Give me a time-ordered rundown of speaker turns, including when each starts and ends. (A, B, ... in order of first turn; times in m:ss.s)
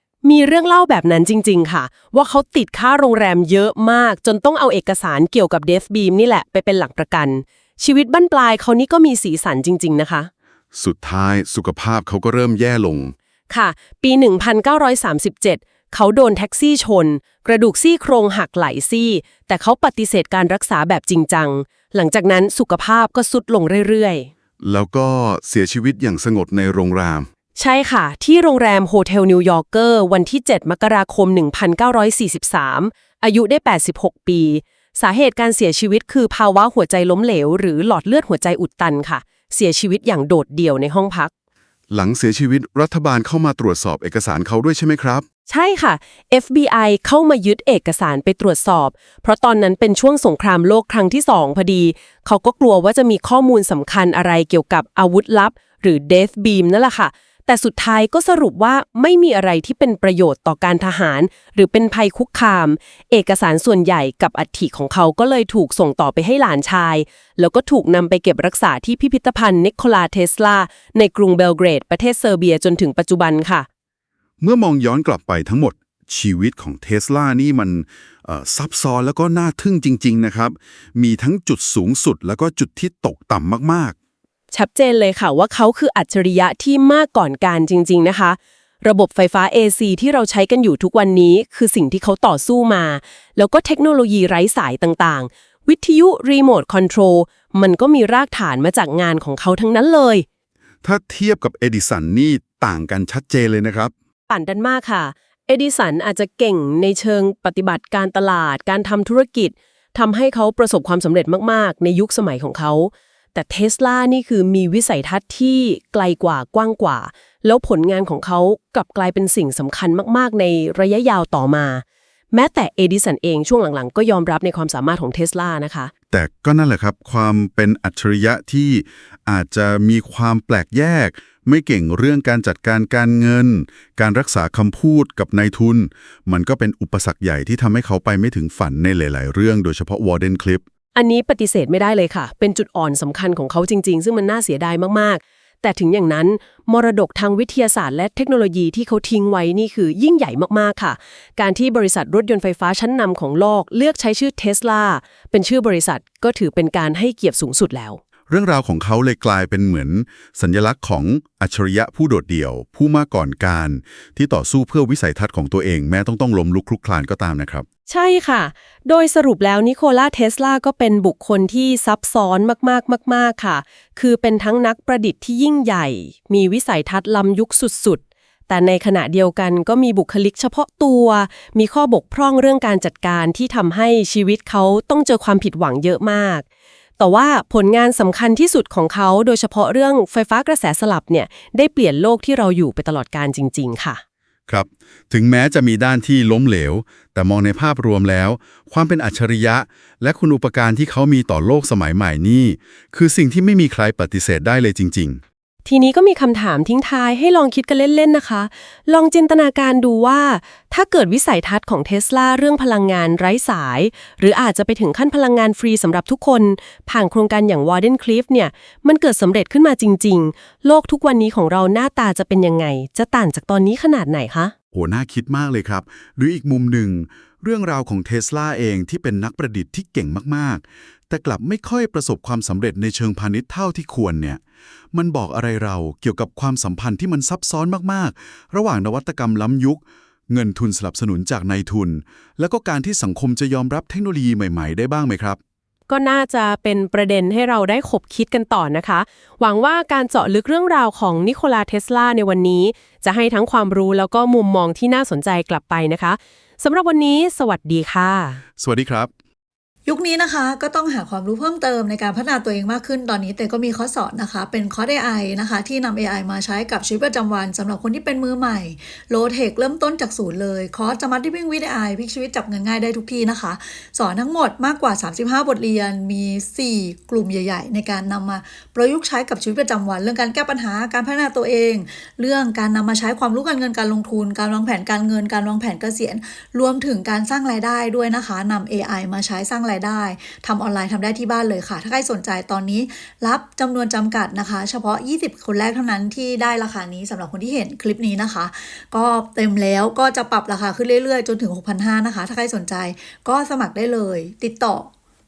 0:00.2-0:10.3 A
0:10.7-0:13.1 B
0:13.5-0:24.3 A
0:24.6-0:27.3 B
0:27.6-0:41.3 A
0:41.9-0:45.2 B
0:45.5-1:13.7 A
1:14.4-1:24.0 B
1:24.5-1:40.2 A
1:40.8-1:43.9 B
1:44.3-2:05.9 A
2:06.1-2:20.6 B
2:20.9-2:38.0 A
2:38.3-2:47.7 B
2:47.9-3:06.4 A
3:07.0-3:14.0 A
3:14.5-3:25.2 B
3:25.6-3:44.5 A
3:44.7-3:54.4 B
3:54.9-4:05.4 B
4:05.9-4:18.4 A
4:18.6-4:19.1 B
4:19.8-5:04.9 C